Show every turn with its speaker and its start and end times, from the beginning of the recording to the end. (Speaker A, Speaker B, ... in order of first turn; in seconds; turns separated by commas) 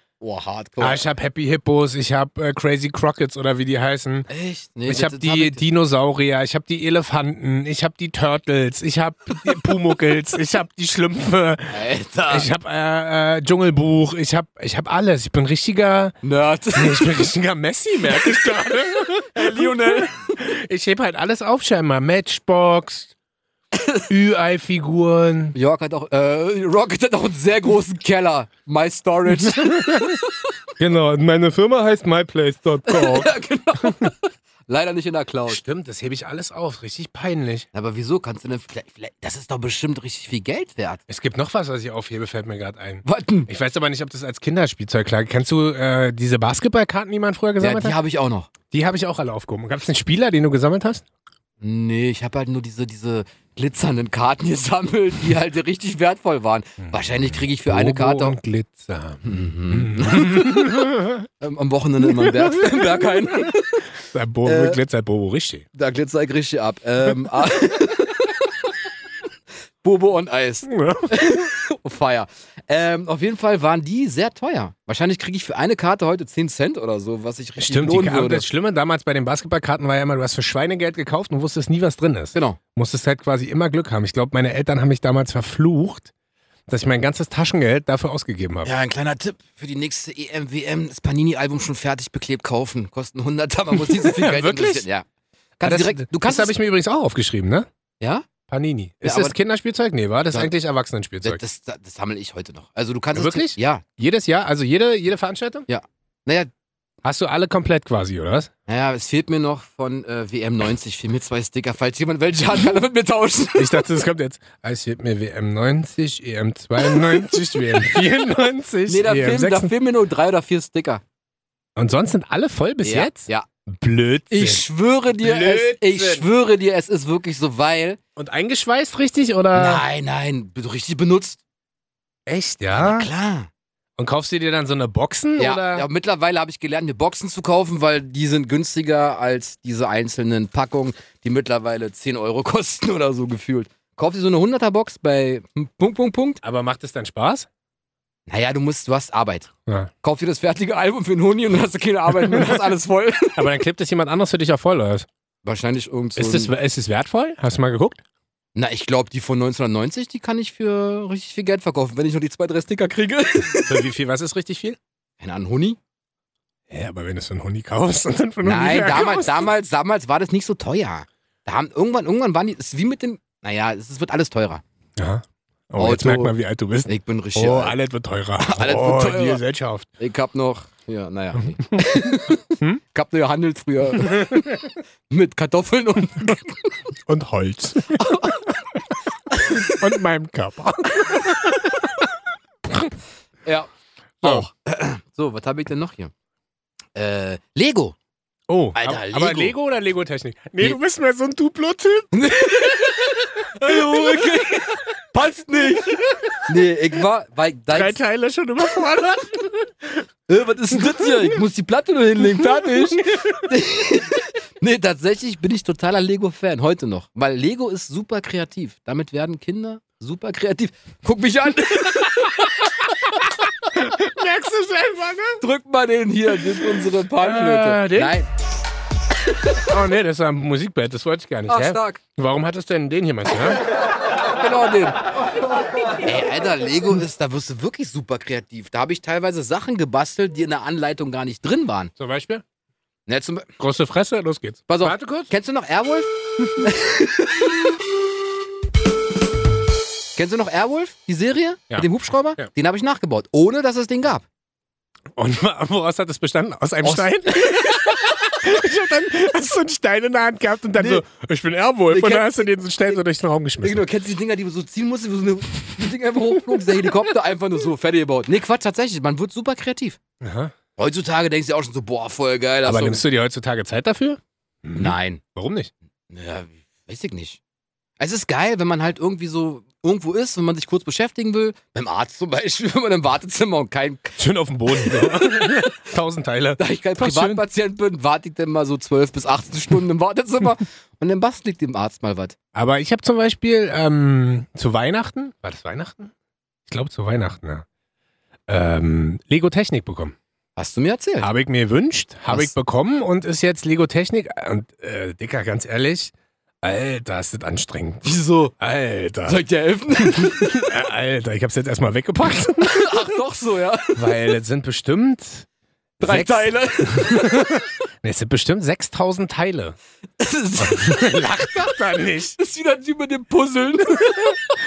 Speaker A: 0.2-1.0, Speaker B: 0.8-4.3, Speaker A: 4.3-5.6, Speaker B: 4.9-16.2, Speaker A: 11.7-12.5, Speaker A: 16.2-17.2, Speaker B: 16.7-23.1, Speaker A: 18.2-18.5, Speaker A: 19.3-20.3, Speaker A: 23.7-24.1, Speaker B: 24.1-25.6, Speaker A: 25.6-30.5, Speaker B: 29.4-30.2, Speaker B: 30.8-34.1, Speaker A: 32.9-35.6, Speaker B: 35.5-37.7, Speaker A: 37.7-41.0, Speaker B: 41.1-48.0, Speaker A: 43.0-43.5, Speaker A: 47.6-48.5, Speaker B: 48.7-51.0, Speaker A: 51.6-58.4, Speaker B: 56.8-61.3, Speaker A: 59.2-60.9, Speaker A: 61.4-63.9, Speaker B: 62.1-65.7, Speaker A: 64.5-64.8, Speaker A: 65.8-68.8, Speaker A: 69.8-78.5, Speaker B: 70.6-71.5, Speaker B: 77.6-86.1, Speaker B: 86.7-88.7, Speaker A: 88.6-95.0, Speaker B: 93.8-94.9, Speaker A: 95.6-96.5, Speaker B: 95.6-97.7, Speaker A: 98.0-98.3, Speaker B: 98.5-101.4, Speaker A: 99.0-99.3, Speaker A: 101.2-103.8, Speaker B: 103.2-105.7, Speaker A: 105.7-106.5, Speaker B: 107.0-108.5, Speaker A: 108.7-113.9, Speaker B: 113.5-119.7, Speaker A: 116.9-117.3, Speaker A: 118.9-121.0, Speaker B: 121.8-124.7, Speaker A: 122.8-123.5, Speaker A: 124.3-128.0, Speaker B: 125.2-126.3, Speaker B: 128.2-129.8, Speaker A: 129.6-131.4, Speaker B: 132.3-133.1, Speaker A: 132.7-133.5, Speaker B: 134.0-135.9, Speaker A: 135.4-146.4, Speaker B: 146.4-147.5, Speaker A: 148.3-149.5, Speaker A: 150.0-153.5, Speaker B: 152.2-152.6, Speaker B: 153.3-155.1, Speaker A: 155.4-156.5, Speaker B: 156.2-158.0, Speaker A: 158.6-163.8, Speaker B: 163.7-164.8, Speaker A: 165.2-165.8, Speaker B: 166.7-169.5, Speaker A: 168.4-174.6, Speaker B: 175.0-179.9, Speaker A: 175.8-176.3, Speaker A: 176.9-177.8, Speaker A: 178.4-179.4, Speaker A: 180.0-186.8, Speaker B: 181.7-182.8, Speaker B: 184.1-184.7, Speaker B: 187.1-188.9, Speaker A: 187.9-188.5, Speaker A: 189.3-189.8, Speaker B: 189.4-192.1, Speaker A: 194.2-196.1, Speaker A: 196.9-198.0, Speaker B: 198.5-202.3, Speaker A: 198.8-199.6, Speaker A: 202.1-208.0, Speaker B: 203.6-204.2, Speaker B: 207.7-209.7, Speaker A: 210.3-223.2, Speaker B: 212.7-213.5, Speaker B: 223.7-225.4, Speaker A: 225.4-228.3, Speaker B: 226.6-228.2, Speaker B: 229.6-233.6, Speaker A: 231.5-232.0, Speaker A: 234.2-235.0, Speaker A: 236.0-241.9, Speaker B: 242.0-242.4, Speaker A: 243.1-243.5, Speaker B: 243.6-245.3, Speaker A: 244.7-247.7, Speaker A: 250.2-254.2, Speaker B: 251.7-252.5, Speaker B: 255.2-263.9, Speaker A: 256.8-257.9, Speaker A: 260.8-261.0, Speaker A: 261.9-262.4, Speaker A: 263.6-270.0, Speaker B: 270.2-270.5, Speaker A: 270.8-273.0, Speaker B: 272.6-275.7, Speaker A: 274.8-275.2, Speaker A: 276.1-277.4, Speaker A: 278.0-284.2, Speaker B: 284.2-287.4, Speaker A: 284.7-285.7, Speaker A: 286.6-292.4, Speaker B: 292.5-296.1, Speaker B: 296.7-297.7, Speaker B: 298.5-300.1, Speaker A: 300.6-301.3, Speaker B: 301.2-309.4, Speaker A: 308.0-308.5, Speaker A: 309.2-310.5, Speaker B: 310.0-313.0, Speaker A: 312.7-314.0, Speaker B: 313.9-315.5, Speaker A: 316.0-317.6, Speaker B: 316.0-319.8, Speaker A: 320.2-321.8, Speaker B: 320.6-322.4, Speaker A: 322.4-324.5